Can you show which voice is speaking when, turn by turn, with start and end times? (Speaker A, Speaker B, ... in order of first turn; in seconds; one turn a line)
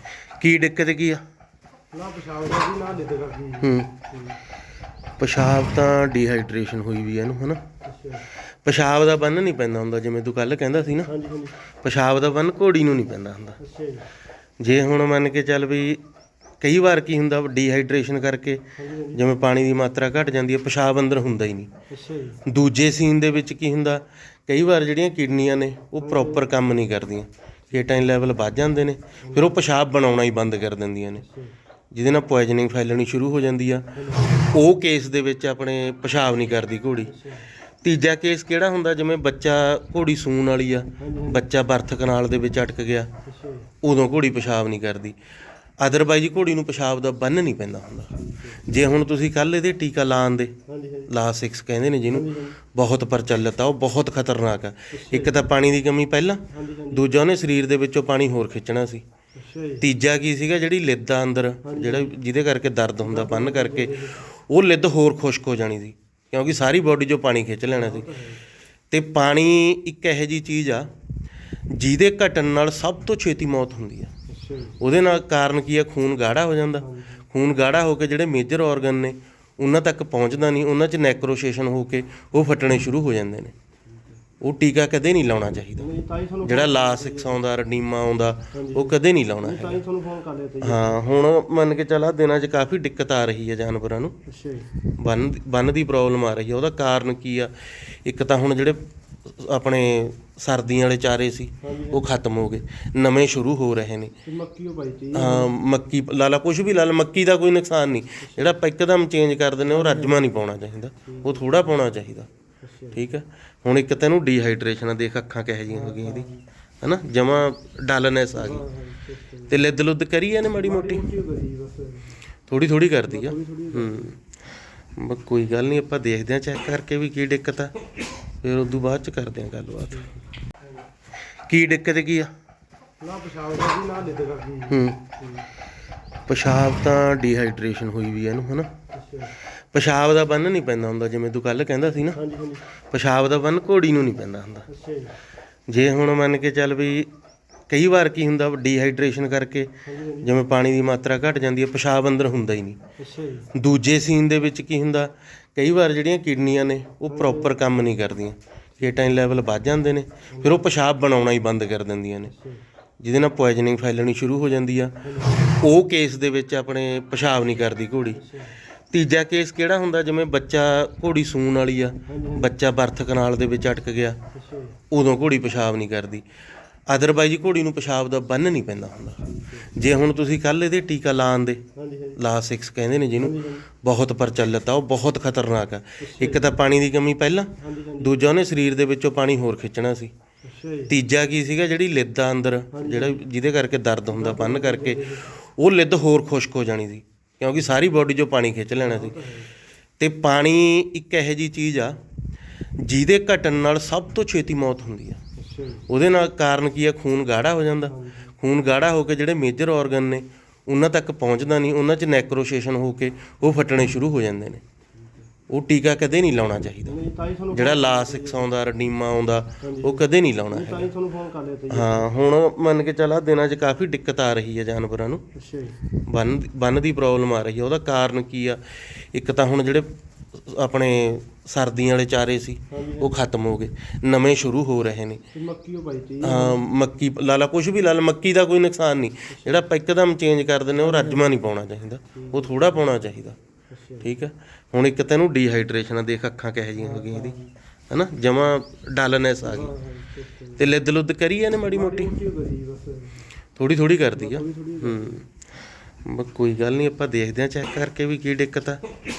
Speaker A: 0.4-1.2
Speaker B: 1.9-4.4
Speaker A: 3.6-3.9
Speaker A: 5.2-7.6
Speaker B: 7.8-8.2
Speaker A: 8.7-11.1
Speaker B: 11.1-11.6
Speaker A: 11.8-13.6
Speaker B: 13.6-14.1
Speaker A: 14.6-16.0
Speaker A: 16.6-18.6
Speaker B: 18.8-19.2
Speaker A: 19.1-21.7
Speaker B: 21.9-22.4
Speaker A: 22.5-31.2
Speaker B: 26.0-26.5
Speaker B: 29.2-29.6
Speaker B: 31.2-31.5
Speaker A: 31.9-33.9
Speaker B: 33.9-34.5
Speaker A: 34.5-37.1
Speaker B: 37.1-37.5
Speaker A: 37.8-43.1
Speaker B: 41.0-41.5
Speaker B: 43.2-43.7
Speaker A: 43.8-45.2
Speaker A: 45.8-50.5
Speaker B: 48.2-48.6
Speaker B: 50.7-51.1
Speaker A: 51.1-59.0
Speaker B: 52.1-52.6
Speaker B: 54.9-55.4
Speaker B: 56.5-57.1
Speaker B: 59.4-59.9
Speaker A: 59.8-68.1
Speaker B: 61.6-62.1
Speaker B: 63.0-64.2
Speaker B: 67.7-68.4
Speaker A: 68.9-70.9
Speaker A: 71.7-74.1
Speaker B: 74.3-74.8
Speaker A: 74.8-83.5
Speaker B: 76.8-77.2
Speaker B: 83.9-84.2
Speaker A: 84.4-85.9
Speaker B: 85.7-87.4
Speaker A: 86.4-89.8
Speaker B: 88.5-91.0
Speaker A: 90.6-94.2
Speaker B: 94.3-94.7
Speaker A: 95.0-104.1
Speaker B: 101.6-102.1
Speaker B: 104.2-105.5
Speaker A: 105.1-112.3
Speaker B: 108.2-108.6
Speaker B: 109.7-110.2
Speaker B: 111.0-111.6
Speaker B: 112.6-113.0
Speaker A: 112.9-116.3
Speaker B: 115.7-116.4
Speaker A: 116.8-118.7
Speaker B: 118.4-119.7
Speaker A: 119.5-121.0
Speaker B: 120.5-122.2
Speaker A: 122.5-124.2
Speaker B: 123.0-124.1
Speaker A: 125.0-127.7
Speaker A: 128.4-130.1
Speaker B: 129.9-130.2
Speaker A: 131.5-132.3
Speaker B: 133.0-135.5
Speaker A: 134.7-135.0
Speaker A: 136.3-138.7
Speaker B: 138.9-139.3
Speaker A: 139.7-142.2
Speaker B: 142.1-142.6
Speaker A: 142.9-144.7
Speaker B: 144.7-145.1
Speaker A: 145.7-147.1
Speaker A: 147.7-152.8
Speaker B: 149.8-150.4
Speaker B: 153.0-153.5
Speaker A: 153.5-162.3
Speaker B: 157.1-157.6
Speaker B: 160.3-160.7
Speaker B: 162.3-162.6
Speaker A: 163.0-168.2
Speaker B: 165.0-165.6
Speaker B: 168.1-168.6
Speaker A: 168.9-174.2
Speaker B: 172.1-172.5
Speaker B: 174.3-174.8
Speaker A: 174.9-176.2
Speaker A: 176.9-181.6
Speaker B: 179.3-179.8
Speaker B: 181.8-182.2
Speaker A: 182.2-190.1
Speaker B: 183.2-183.7
Speaker B: 186.0-186.5
Speaker B: 187.6-188.3
Speaker B: 190.4-191.0
Speaker A: 190.9-199.2
Speaker B: 192.7-193.2
Speaker B: 194.1-195.3
Speaker B: 198.8-199.5
Speaker A: 200.0-202.0
Speaker A: 202.8-205.2
Speaker B: 205.4-205.9
Speaker A: 205.9-214.6
Speaker B: 207.9-208.3
Speaker A: 215.5-217.0
Speaker B: 216.8-218.5
Speaker A: 217.5-220.9
Speaker B: 219.6-222.1
Speaker A: 221.7-225.3
Speaker B: 225.3-225.8
Speaker A: 226.1-235.2
Speaker B: 232.7-233.2
Speaker B: 235.3-236.6
Speaker A: 236.2-243.4
Speaker B: 239.3-239.7
Speaker B: 240.8-241.3
Speaker B: 242.1-242.8
Speaker B: 243.7-244.1
Speaker A: 244.0-247.4
Speaker B: 246.8-247.5
Speaker A: 247.9-249.8
Speaker B: 249.4-250.7
Speaker A: 250.6-252.2
Speaker B: 251.5-253.3
Speaker A: 253.6-255.3
Speaker B: 254.2-255.2
Speaker A: 256.1-258.8